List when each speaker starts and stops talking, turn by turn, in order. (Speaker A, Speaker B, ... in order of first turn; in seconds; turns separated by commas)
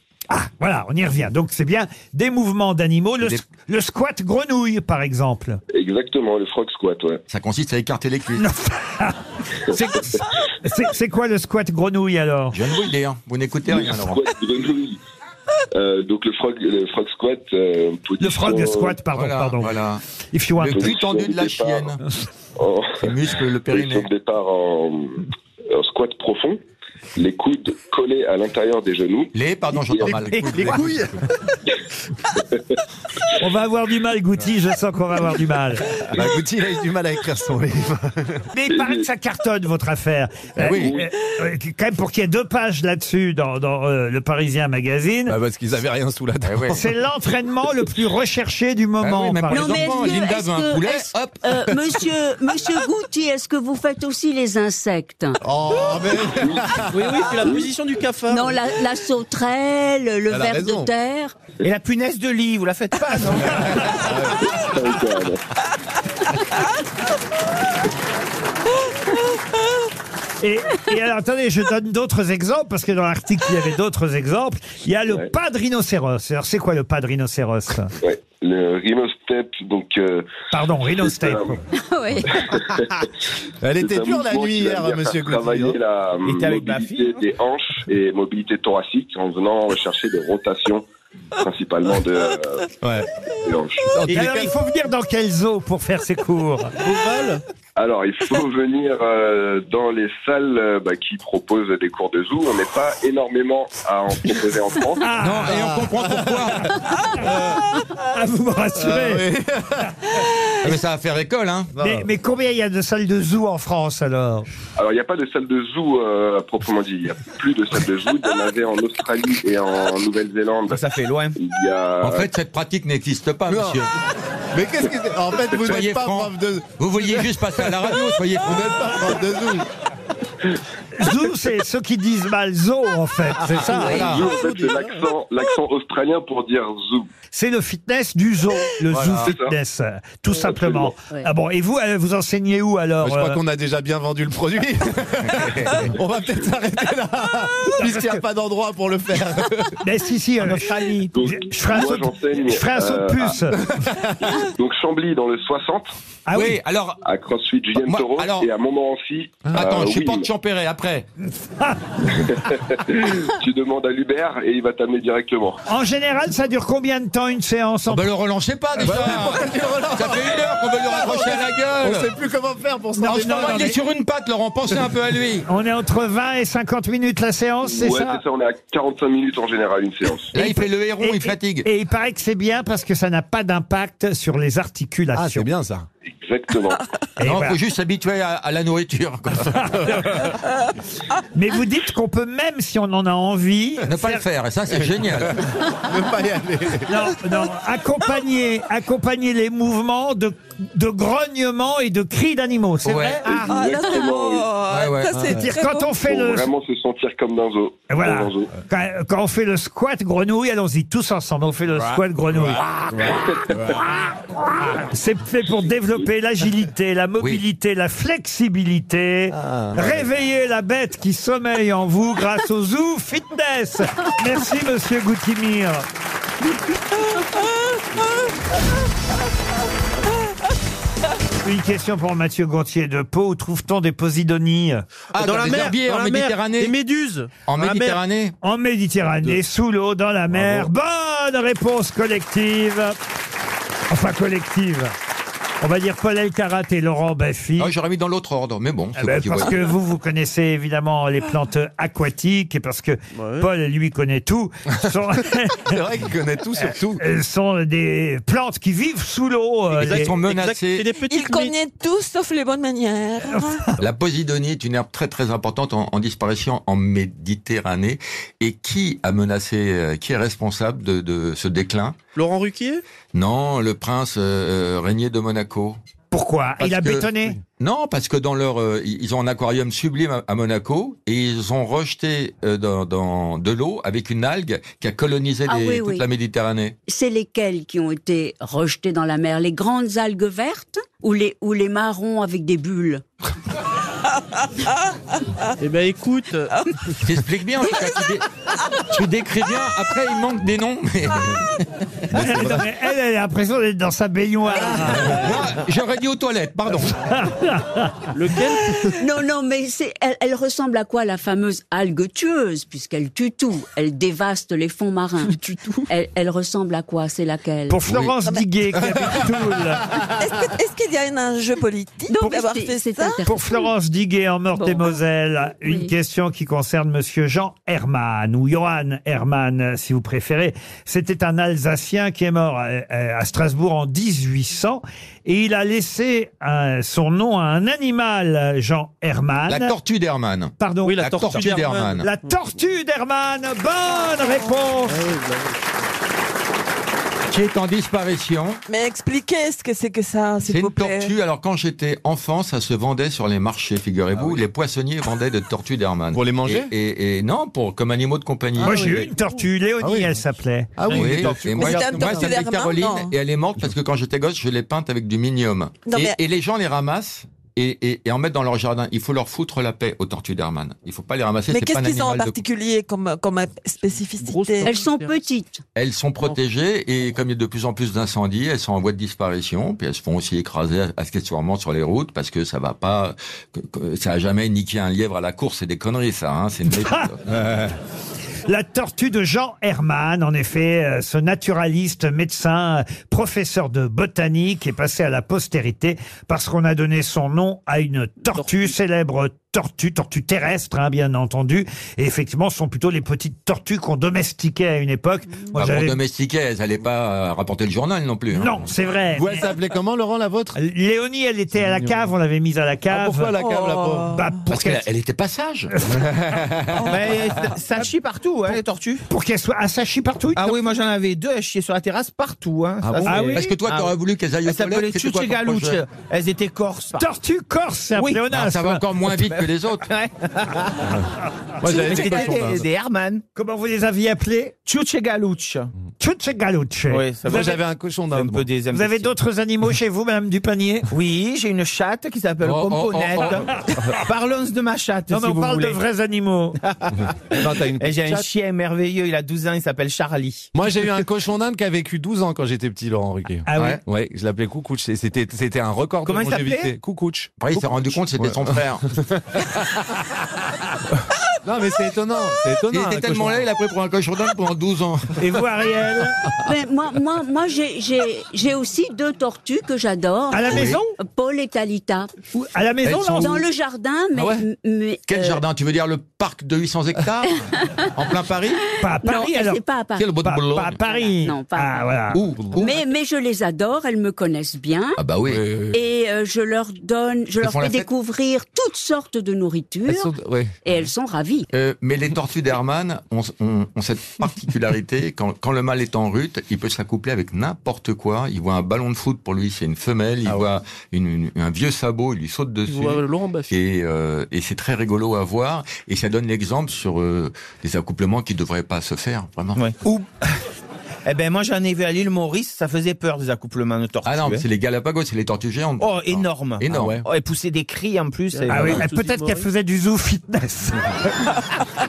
Speaker A: 0.3-5.6, Speaker B: 5.7-7.2, Speaker C: 7.3-8.4, Speaker A: 8.4-12.6, Speaker C: 12.5-14.2, Speaker B: 13.7-15.0, Speaker B: 15.7-19.0, Speaker A: 18.2-19.7, Speaker C: 19.1-20.0, Speaker A: 20.3-20.9, Speaker C: 20.6-22.0, Speaker B: 20.7-21.9, Speaker B: 22.6-23.1, Speaker C: 23.0-24.1, Speaker B: 23.7-26.6, Speaker B: 27.1-29.3, Speaker C: 29.3-30.9, Speaker B: 29.9-30.2, Speaker D: 30.0-31.3, Speaker E: 30.3-30.9, Speaker A: 33.4-35.9, Speaker D: 36.1-38.4, Speaker A: 38.5-45.4, Speaker B: 38.7-39.1, Speaker C: 40.6-41.0, Speaker B: 40.6-41.1, Speaker D: 45.3-46.8, Speaker C: 46.4-46.8, Speaker A: 46.7-50.1, Speaker C: 49.0-51.8, Speaker F: 49.5-55.4, Speaker D: 55.4-57.1, Speaker B: 56.4-56.7, Speaker G: 56.9-58.6, Speaker F: 58.3-61.3, Speaker D: 60.3-60.9, Speaker E: 61.6-64.1, Speaker D: 63.4-64.6, Speaker B: 64.4-65.4, Speaker A: 70.4-77.9, Speaker B: 78.0-81.6, Speaker A: 80.5-81.6, Speaker F: 81.7-82.5, Speaker B: 82.3-83.0, Speaker D: 83.6-85.8, Speaker B: 83.8-90.8, Speaker E: 86.2-87.2, Speaker B: 91.4-92.7, Speaker D: 92.8-93.1, Speaker B: 93.4-93.9, Speaker D: 93.8-94.5, Speaker A: 94.1-96.7, Speaker G: 96.8-97.4, Speaker B: 97.8-105.1, Speaker A: 105.0-105.9, Speaker C: 105.1-106.7, Speaker D: 106.0-107.8, Speaker A: 108.1-109.2, Speaker D: 108.8-109.9, Speaker C: 110.6-111.7, Speaker D: 111.8-112.1, Speaker A: 111.8-114.5, Speaker B: 114.8-120.8, Speaker E: 120.7-121.4, Speaker B: 121.4-122.3, Speaker C: 122.0-123.9, Speaker D: 123.5-123.8, Speaker D: 124.5-129.7, Speaker C: 125.6-128.9, Speaker A: 131.0-134.1, Speaker D: 133.4-134.9, Speaker F: 133.8-134.1, Speaker C: 133.8-134.2, Speaker B: 133.9-137.1, Speaker A: 137.3-143.4, Speaker D: 138.9-139.3, Speaker B: 139.2-139.5, Speaker B: 140.4-140.9, Speaker D: 143.0-149.8, Speaker C: 145.3-145.9, Speaker A: 147.8-148.2, Speaker A: 149.8-153.7, Speaker E: 150.4-151.1, Speaker B: 151.1-153.5, Speaker D: 153.6-154.3, Speaker B: 154.2-155.9, Speaker A: 156.3-156.6, Speaker C: 156.3-157.0, Speaker B: 157.0-160.3, Speaker C: 157.8-158.5, Speaker C: 159.5-161.1, Speaker B: 162.1-165.6, Speaker A: 165.7-168.1, Speaker C: 167.9-172.1, Speaker D: 168.8-173.8, Speaker A: 173.0-173.8, Speaker C: 173.2-175.4, Speaker A: 175.5-178.2, Speaker B: 177.6-180.3, Speaker C: 180.3-181.7, Speaker A: 180.3-185.5, Speaker D: 185.1-185.9, Speaker B: 186.1-186.8, Speaker A: 187.2-187.6, Speaker C: 187.2-189.9, Speaker A: 189.5-190.2, Speaker A: 191.3-194.2, Speaker C: 193.8-195.4, Speaker D: 195.2-196.9, Speaker A: 196.9-203.4, Speaker C: 202.8-203.3, Speaker B: 203.2-204.6, Speaker H: 203.2-205.9, Speaker C: 204.7-205.2, Speaker D: 205.2-205.4, Speaker A: 205.3-206.5, Speaker B: 205.9-208.5, Speaker A: 207.9-212.6, Speaker C: 211.8-212.0, Speaker D: 212.9-213.8, Speaker A: 214.6-225.8, Speaker D: 219.3-220.1, Speaker A: 231.4-234.8, Speaker C: 235.1-236.7, Speaker G: 235.2-237.9, Speaker C: 237.4-238.3, Speaker A: 238.4-242.9, Speaker D: 240.3-240.7, Speaker A: 243.9-244.9, Speaker A: 245.6-247.7, Speaker C: 247.6-249.7, Speaker A: 249.0-255.8, Speaker G: 253.1-253.5, Speaker D: 255.7-257.0, Speaker A: 257.0-260.1, Speaker C: 259.8-260.9, Speaker G: 259.8-261.5, Speaker H: 261.1-263.6, Speaker C: 263.8-272.0, Speaker G: 272.1-272.8, Speaker C: 273.1-275.8, Speaker A: 276.1-277.4, Speaker C: 276.6-286.8, Speaker F: 285.5-286.1, Speaker F: 286.9-293.0, Speaker G: 295.6-296.6, Speaker C: 297.0-298.2, Speaker C: 298.9-301.4, Speaker D: 302.1-302.7, Speaker A: 302.1-305.2, Speaker C: 304.8-306.9, Speaker A: 307.0-308.1, Speaker G: 308.1-308.9, Speaker F: 309.0-317.8, Speaker A: 317.7-319.9, Speaker C: 317.9-318.1, Speaker H: 320.0-323.2, Speaker F: 322.1-323.6, Speaker A: 323.2-339.7, Speaker F: 324.6-324.9, Speaker F: 325.6-325.9, Speaker C: 339.5-342.1, Speaker A: 340.6-345.1, Speaker G: 340.8-342.4, Speaker G: 344.9-345.6, Speaker C: 347.3-348.6, Speaker H: 348.7-351.1, Speaker C: 350.4-359.0, Speaker D: 354.1-354.4, Speaker D: 356.1-356.7, Speaker A: 358.6-360.9, Speaker D: 359.8-360.2, Speaker D: 360.8-362.3, Speaker C: 360.9-372.3, Speaker H: 361.5-363.1, Speaker H: 365.9-366.1, Speaker H: 371.5-374.7, Speaker G: 374.2-375.2, Speaker F: 374.6-375.6, Speaker C: 375.7-387.2, Speaker A: 386.7-387.1, Speaker D: 387.3-387.7, Speaker A: 388.4-406.0, Speaker G: 398.3-398.6, Speaker C: 405.5-408.6, Speaker A: 408.3-409.5, Speaker D: 409.1-410.6, Speaker A: 410.6-413.4, Speaker D: 411.5-412.1, Speaker D: 412.9-414.2, Speaker H: 413.4-414.0, Speaker A: 414.1-414.9, Speaker C: 414.5-415.7, Speaker D: 415.9-417.5, Speaker E: 416.8-419.0, Speaker A: 419.1-420.6, Speaker E: 420.4-427.1, Speaker D: 422.8-423.3, Speaker A: 423.1-423.5, Speaker C: 423.3-425.8, Speaker A: 427.0-428.8, Speaker C: 428.2-429.9, Speaker E: 429.2-431.0, Speaker D: 430.8-431.1, Speaker D: 431.6-432.6, Speaker E: 431.6-433.2, Speaker A: 431.9-432.2, Speaker A: 433.4-434.6, Speaker E: 434.6-435.7, Speaker A: 436.0-437.6, Speaker E: 436.9-439.1, Speaker D: 437.2-438.5, Speaker A: 438.7-440.9, Speaker E: 440.9-445.8, Speaker D: 442.4-443.9, Speaker C: 442.6-443.4, Speaker A: 445.1-446.6, Speaker E: 446.6-450.5, Speaker D: 447.3-448.3, Speaker D: 450.5-459.8, Speaker A: 453.5-453.8, Speaker C: 453.5-453.8, Speaker E: 456.0-456.8, Speaker C: 457.4-458.8, Speaker D: 461.4-463.4, Speaker C: 462.7-465.2, Speaker A: 465.2-466.2, Speaker F: 466.4-472.1, Speaker A: 470.3-470.9, Speaker C: 470.5-470.8, Speaker A: 472.3-473.4, Speaker C: 472.8-473.4, Speaker F: 473.2-475.4, Speaker D: 474.1-474.4, Speaker C: 475.1-477.4, Speaker C: 477.9-478.6, Speaker A: 478.8-479.6, Speaker F: 479.0-480.2, Speaker C: 479.9-480.8, Speaker A: 480.2-482.2, Speaker F: 480.8-482.0, Speaker C: 482.1-482.8, Speaker D: 482.4-482.6, Speaker F: 482.6-485.0, Speaker C: 485.0-485.5, Speaker D: 485.3-485.8, Speaker F: 485.7-490.1, Speaker C: 487.4-487.9, Speaker D: 489.9-490.5, Speaker F: 490.6-491.5, Speaker C: 491.5-509.6, Speaker G: 502.6-503.5, Speaker E: 509.5-509.8, Speaker E: 511.0-514.5, Speaker C: 514.0-517.0, Speaker E: 515.8-518.8, Speaker D: 516.7-517.0, Speaker G: 518.3-519.5, Speaker A: 518.5-521.3